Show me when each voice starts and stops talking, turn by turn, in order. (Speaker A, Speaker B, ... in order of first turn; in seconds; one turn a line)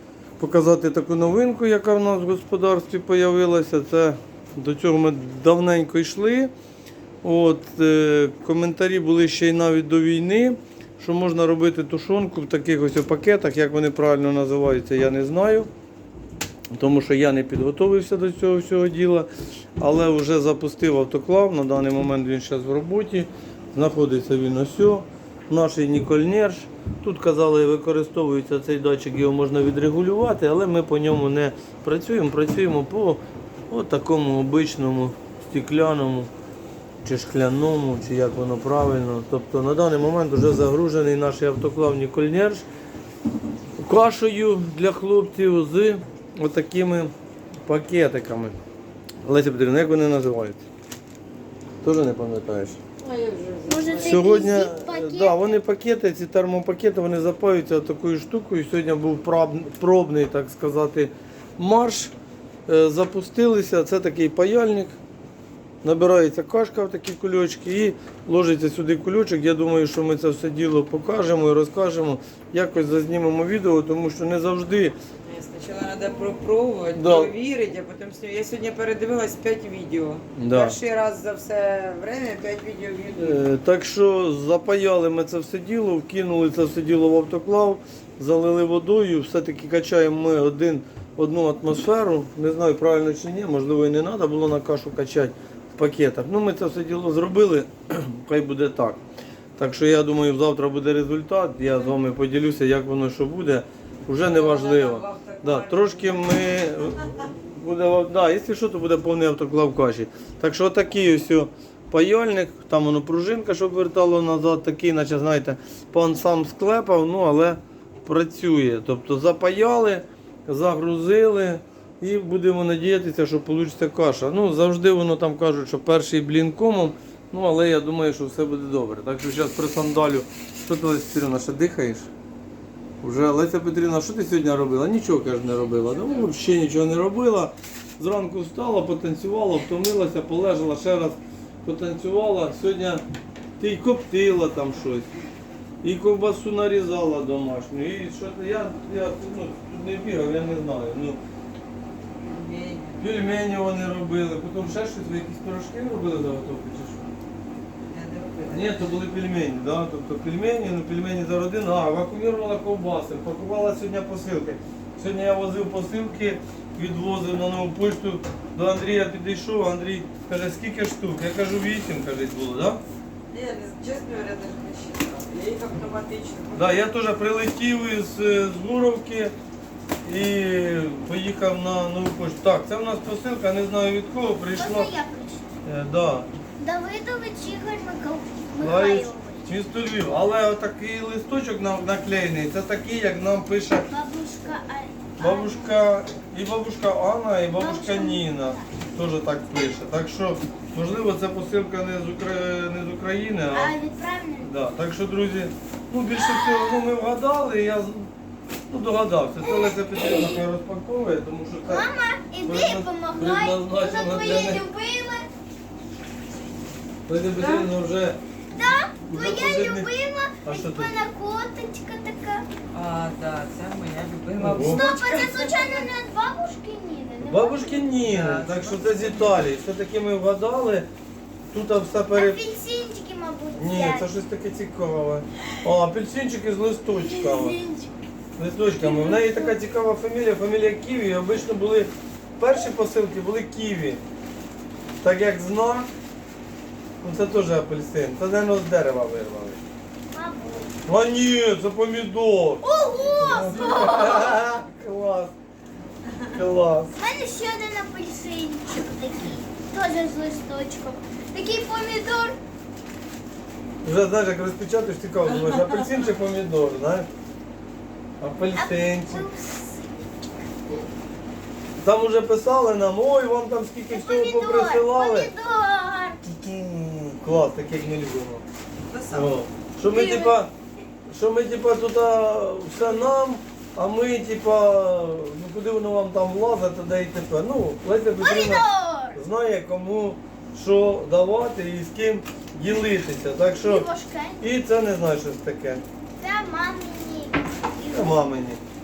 Speaker A: 0.4-6.5
Speaker A: 7.2-15.7
Speaker A: 16.7-19.3
Speaker A: 19.8-36.3
Speaker A: 37.0-42.7
Speaker A: 43.8-47.1
Speaker A: 47.7-48.6
Speaker A: 49.2-50.6
Speaker A: 51.8-52.8
Speaker B: 53.0-54.5
Speaker C: 53.7-55.5
Speaker A: 54.0-62.1
Speaker A: 62.7-65.0
Speaker A: 65.8-75.0
Speaker B: 75.3-83.4
Speaker A: 76.9-77.3
Speaker A: 80.3-80.8
Speaker A: 83.2-99.0
Speaker A: 99.6-132.1
Speaker B: 104.2-106.6
Speaker A: 133.0-143.0
Speaker C: 136.0-136.4
Speaker A: 143.6-145.1
Speaker A: 145.8-151.2
Speaker B: 152.2-153.3
Speaker A: 153.0-157.1
Speaker B: 157.9-159.0
Speaker A: 158.5-172.8
Speaker B: 173.3-176.8
Speaker A: 176.5-179.3
Speaker A: 180.0-184.9
Speaker C: 184.6-185.5
Speaker A: 185.7-186.3
Speaker C: 186.6-189.5
Speaker A: 188.6-193.9
Speaker C: 193.9-195.8
Speaker A: 195.2-203.7
Speaker C: 197.6-198.7
Speaker C: 203.5-204.5
Speaker A: 204.4-208.1
Speaker C: 206.1-206.9
Speaker A: 208.7-211.9
Speaker C: 209.4-210.4
Speaker C: 211.7-215.3
Speaker A: 212.4-214.6
Speaker A: 217.1-218.2
Speaker B: 217.3-217.7
Speaker C: 218.5-222.4
Speaker A: 219.0-219.9
Speaker A: 220.4-220.9
Speaker B: 222.7-225.9
Speaker A: 224.4-224.8
Speaker C: 224.6-227.9
Speaker A: 227.3-230.9
Speaker B: 227.9-229.5
Speaker A: 231.5-232.4
Speaker C: 232.1-234.1
Speaker A: 233.6-237.6
Speaker C: 236.9-237.9
Speaker A: 238.4-244.0
Speaker C: 238.7-239.6
Speaker A: 245.0-245.9
Speaker A: 247.0-249.6
Speaker C: 250.1-250.7
Speaker A: 250.9-255.3
Speaker C: 252.6-254.5
Speaker A: 256.2-256.9
Speaker C: 257.0-262.4
Speaker A: 263.8-267.1
Speaker A: 268.2-269.2
Speaker C: 268.5-270.1
Speaker A: 271.8-275.3
Speaker C: 273.9-276.2
Speaker A: 276.2-278.4
Speaker B: 278.9-279.4
Speaker A: 279.1-280.5
Speaker C: 279.9-280.4
Speaker A: 281.1-293.9
Speaker C: 288.2-289.2
Speaker C: 293.5-294.5
Speaker A: 294.4-295.9
Speaker C: 296.2-298.2
Speaker A: 297.8-298.6